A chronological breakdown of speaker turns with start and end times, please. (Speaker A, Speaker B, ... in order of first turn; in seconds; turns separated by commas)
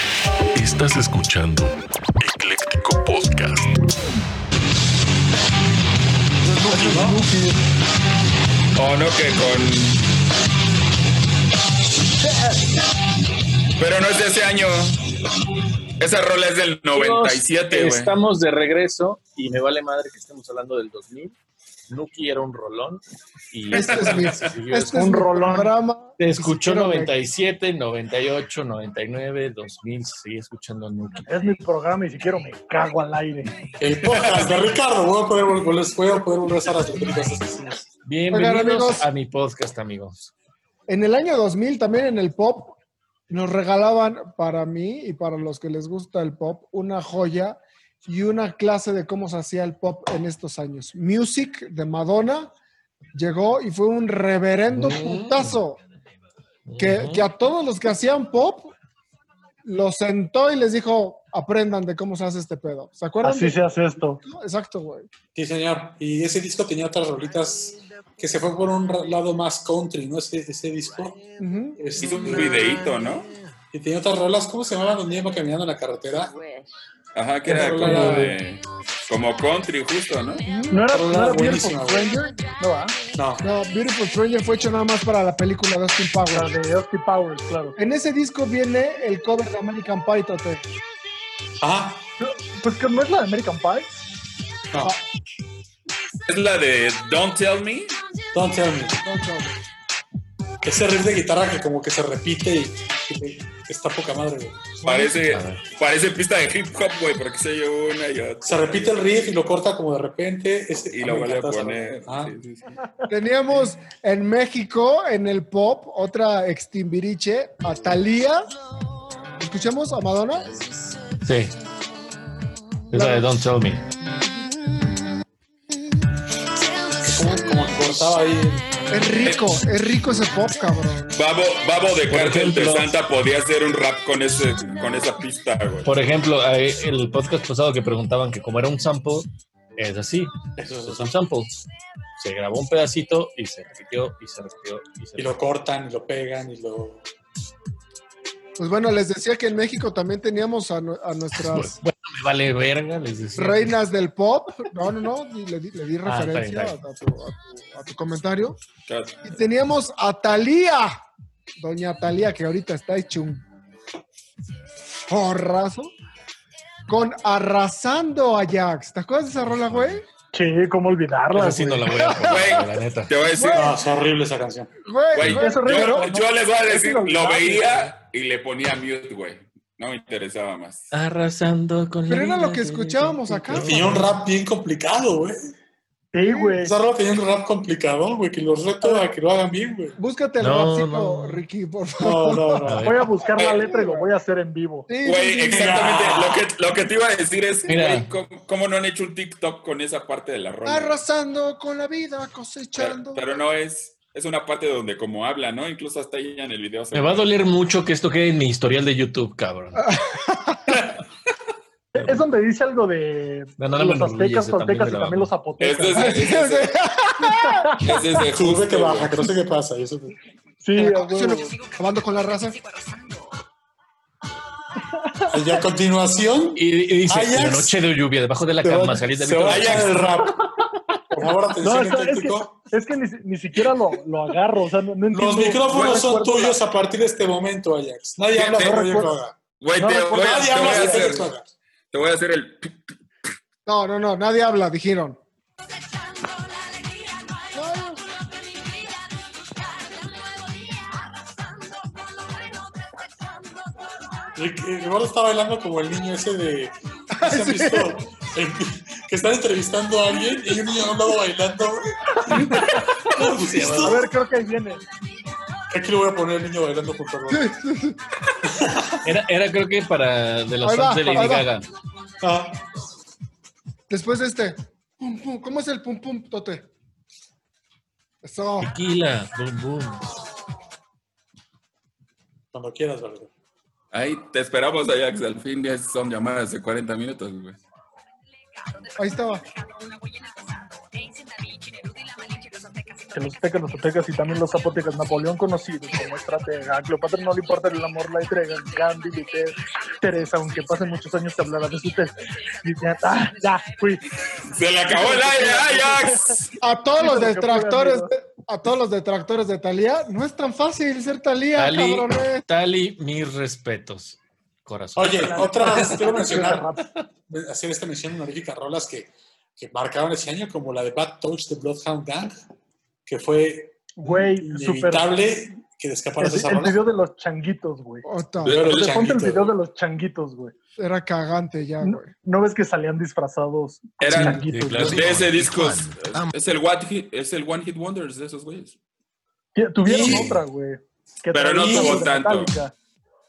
Speaker A: 0.5-3.9, Speaker B: 6.5-7.2, Speaker C: 6.6-7.6, Speaker D: 8.8-10.0, Speaker D: 13.8-15.1, Speaker D: 16.0-18.1, Speaker E: 16.9-21.3, Speaker E: 21.9-25.7, Speaker F: 23.7-27.1, Speaker D: 23.7-24.4, Speaker E: 26.2-31.3, Speaker C: 31.3-33.5, Speaker B: 33.8-37.9, Speaker E: 38.0-40.3, Speaker F: 38.3-39.1, Speaker F: 40.9-42.8, Speaker F: 43.3-52.5, Speaker F: 53.1-55.8, Speaker E: 54.7-55.6, Speaker E: 56.7-57.3, Speaker F: 56.8-58.7, Speaker F: 59.6-65.1, Speaker C: 63.2-64.2, Speaker B: 65.3-71.2, Speaker F: 71.4-71.8, Speaker B: 71.8-72.7, Speaker D: 72.0-73.3, Speaker B: 73.7-76.4, Speaker D: 77.1-80.4, Speaker B: 77.4-78.4, Speaker E: 77.8-78.3, Speaker F: 80.5-80.8, Speaker C: 80.7-83.0, Speaker B: 80.9-82.1, Speaker B: 83.1-83.4, Speaker F: 83.4-86.5, Speaker C: 86.3-87.8, Speaker F: 87.8-90.6, Speaker B: 91.6-92.1, Speaker C: 92.2-94.0, Speaker D: 96.2-98.0, Speaker B: 98.3-99.0, Speaker F: 99.0-99.6, Speaker B: 100.6-104.8, Speaker D: 104.8-109.3, Speaker E: 105.2-105.6, Speaker B: 108.4-112.3, Speaker D: 110.9-112.8, Speaker F: 113.1-118.5, Speaker F: 119.4-120.5, Speaker E: 121.2-121.5, Speaker E: 122.9-123.8, Speaker F: 122.9-123.2, Speaker B: 127.0-128.7, Speaker F: 128.9-131.2, Speaker D: 129.2-129.5, Speaker D: 131.1-135.9, Speaker E: 132.1-133.0, Speaker E: 135.8-141.5, Speaker B: 140.6-141.1, Speaker E: 142.2-145.3, Speaker B: 145.2-147.0, Speaker F: 148.6-151.8, Speaker E: 151.4-153.7, Speaker F: 153.3-158.6, Speaker E: 156.0-156.8, Speaker D: 158.8-159.4, Speaker F: 159.2-161.0, Speaker F: 161.6-163.4, Speaker F: 165.1-165.9, Speaker F: 166.9-170.0, Speaker E: 169.5-169.9, Speaker C: 170.3-172.0, Speaker E: 171.3-173.1, Speaker F: 171.9-172.5, Speaker D: 172.2-173.7, Speaker F: 173.3-173.7, Speaker B: 173.5-174.7, Speaker F: 174.8-176.0, Speaker D: 175.1-180.9, Speaker C: 175.2-177.8, Speaker E: 180.9-184.1, Speaker F: 182.1-183.8, Speaker B: 183.6-185.5, Speaker C: 186.1-186.7, Speaker F: 186.2-186.6, Speaker B: 186.6-189.9, Speaker F: 188.8-189.1, Speaker F: 190.0-192.7, Speaker E: 190.4-191.4, Speaker B: 192.0-192.8, Speaker E: 192.7-193.2, Speaker C: 192.8-194.9, Speaker D: 193.3-193.7, Speaker F: 193.6-194.1, Speaker F: 194.9-195.8, Speaker D: 195.0-201.0, Speaker B: 195.5-196.5, Speaker E: 197.7-198.1, Speaker F: 200.6-203.2, Speaker D: 202.8-207.3, Speaker E: 206.9-209.8, Speaker F: 209.8-210.7, Speaker C: 211.9-216.2, Speaker E: 211.9-212.2, Speaker E: 213.6-215.3, Speaker D: 215.6-216.7, Speaker F: 215.9-217.7, Speaker C: 217.2-218.0, Speaker D: 217.8-219.2, Speaker B: 218.3-220.2, Speaker C: 220.6-221.5, Speaker F: 220.8-222.6, Speaker B: 225.3-227.8, Speaker E: 226.6-230.1, Speaker B: 228.6-230.4, Speaker D: 229.4-230.1, Speaker B: 231.1-232.7, Speaker C: 231.6-236.6, Speaker B: 235.1-239.3, Speaker D: 238.3-238.8, Speaker C: 238.6-239.1, Speaker D: 239.6-241.3, Speaker C: 239.8-241.3, Speaker B: 240.1-241.4, Speaker D: 241.9-242.9, Speaker F: 243.7-245.2, Speaker F: 247.5-248.0, Speaker B: 254.3-264.0, Speaker F: 257.1-257.9, Speaker C: 262.3-262.8, Speaker E: 263.2-264.1, Speaker C: 263.8-264.8, Speaker B: 265.7-267.5, Speaker F: 267.3-268.0, Speaker B: 268.4-269.0, Speaker E: 269.0-271.6, Speaker F: 270.6-271.5, Speaker B: 272.2-272.6, Speaker F: 273.9-276.7, Speaker F: 278.2-278.7, Speaker E: 278.6-280.1, Speaker B: 282.5-283.3, Speaker D: 283.9-287.6, Speaker F: 289.0-289.4, Speaker C: 293.1-304.1, Speaker D: 304.3-306.5, Speaker C: 304.9-306.4, Speaker F: 306.6-312.4, Speaker C: 307.0-308.1, Speaker E: 311.6-316.6, Speaker B: 314.9-316.7, Speaker C: 315.1-316.8, Speaker B: 317.3-322.4, Speaker B: 323.1-326.8, Speaker C: 324.0-325.1, Speaker C: 326.2-328.1, Speaker F: 328.0-328.6, Speaker D: 328.4-328.9, Speaker B: 328.4-329.5, Speaker C: 328.6-330.5, Speaker F: 330.8-332.1, Speaker C: 331.8-335.2, Speaker D: 334.0-338.8, Speaker E: 334.1-336.3, Speaker C: 339.5-342.7, Speaker B: 339.8-340.4, Speaker D: 341.3-342.5, Speaker B: 341.6-342.1